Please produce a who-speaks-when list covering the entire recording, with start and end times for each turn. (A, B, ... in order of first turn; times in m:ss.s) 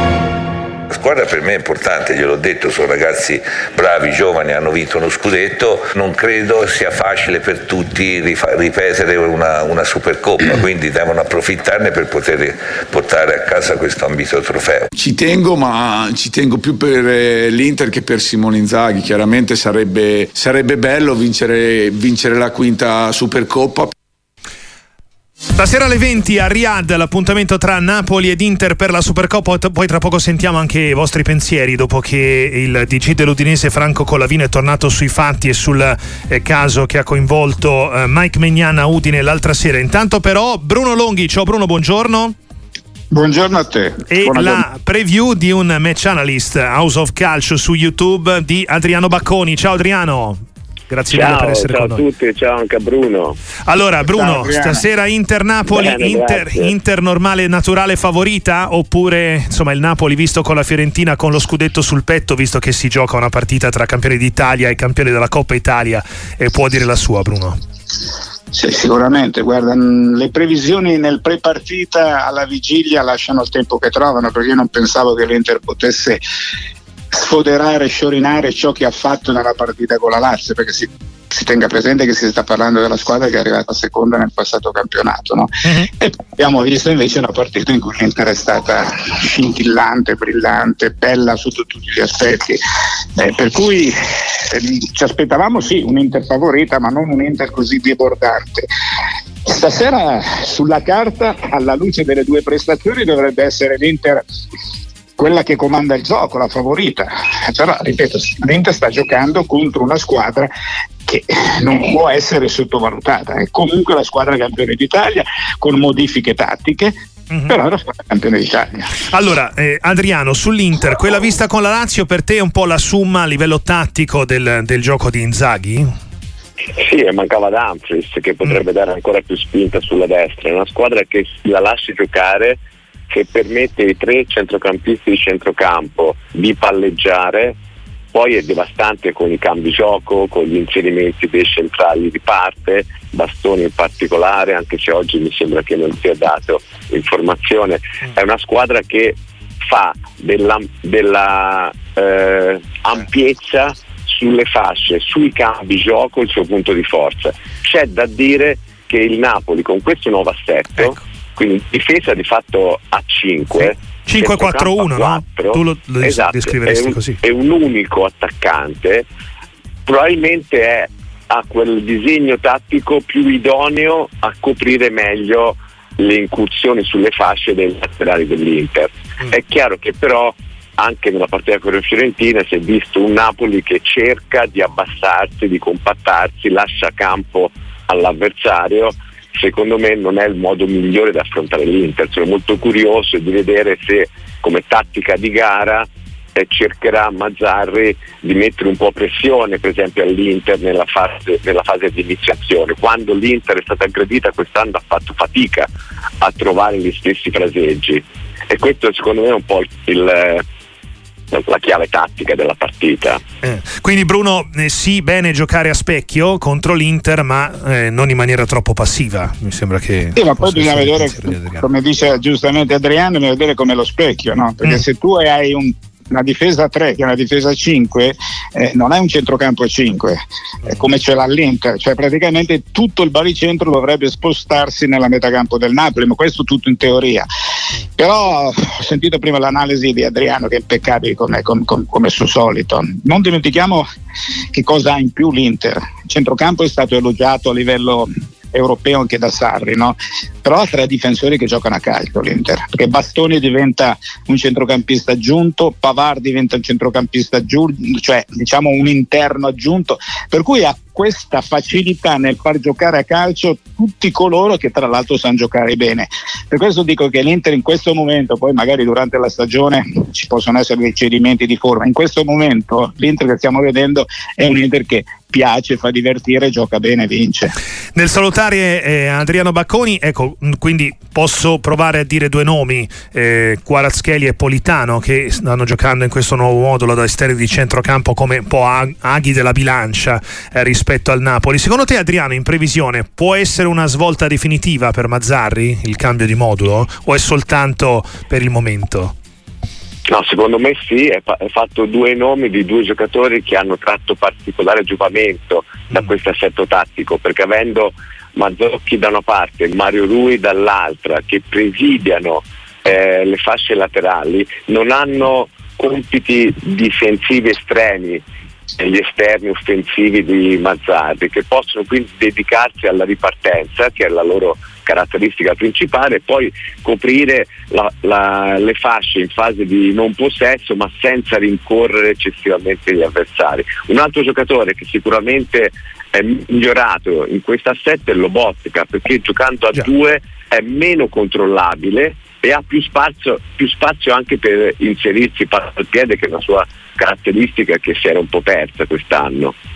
0:00.9-0:14.8 A
0:15.0-0:23.9 B
0:25.6-0:42.3 C
0:43.1-0:44.6 D
0:44.1-0:50.4 C
0:50.9-0:52.0 C
0:51.1-0:53.4 E
0:53.6-1:07.5 C
0:54.0-0:54.9 D
0:55.7-0:56.7 E
1:08.5-1:16.2 D
1:17.1-1:32.6 D
1:33.2-1:38.7 D
1:39.4-1:44.2 D
1:45.2-1:50.5 D
1:51.0-1:56.9 D
1:57.3-1:57.6 C
1:57.5-1:59.0 D
1:59.0-2:05.9 C
2:06.7-2:17.6 E
2:18.1-2:49.1 E
2:43.6-2:47.2 C
2:49.9-3:30.4 E
3:31.3-3:33.2 E
3:33.4-3:41.6 C
3:40.1-3:57.3 D
3:58.0-4:03.8 D
4:04.5-4:37.6 D
4:37.9-4:59.1 C
5:00.1-5:18.2 E
5:18.8-5:49.5 E